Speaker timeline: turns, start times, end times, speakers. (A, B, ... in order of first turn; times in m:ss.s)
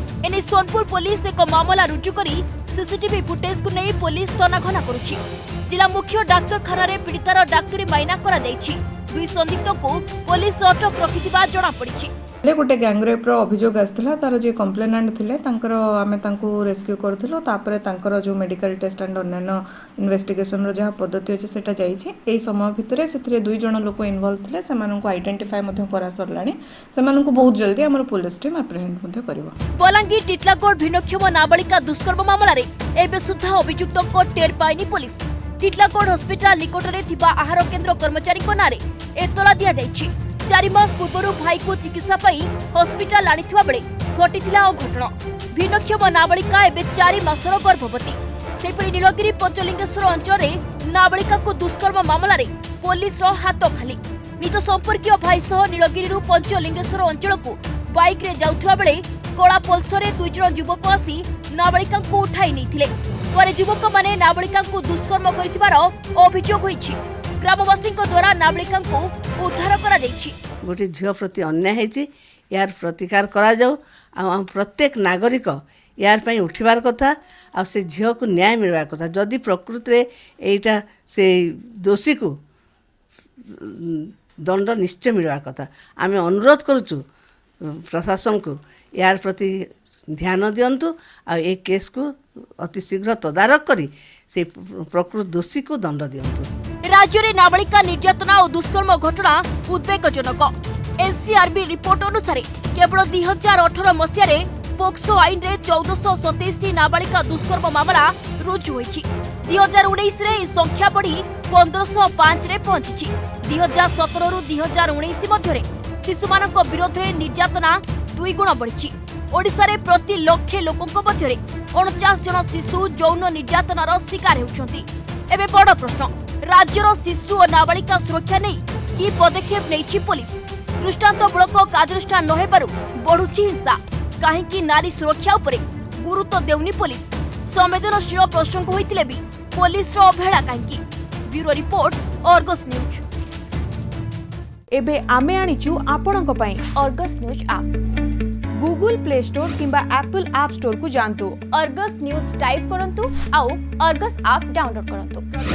0:00.2-0:12.1 A
0:12.4-0:29.6 B
0:29.8-1:10.4 A
1:10.6-1:22.3 C
1:23.4-1:27.0 C
1:27.6-1:29.6 C
1:30.1-1:32.1 C
1:32.6-1:36.5 C
1:36.8-2:23.0 A
2:24.7-2:26.6 D
2:26.8-2:27.6 A
2:28.6-2:31.4 D
2:31.5-2:35.2 A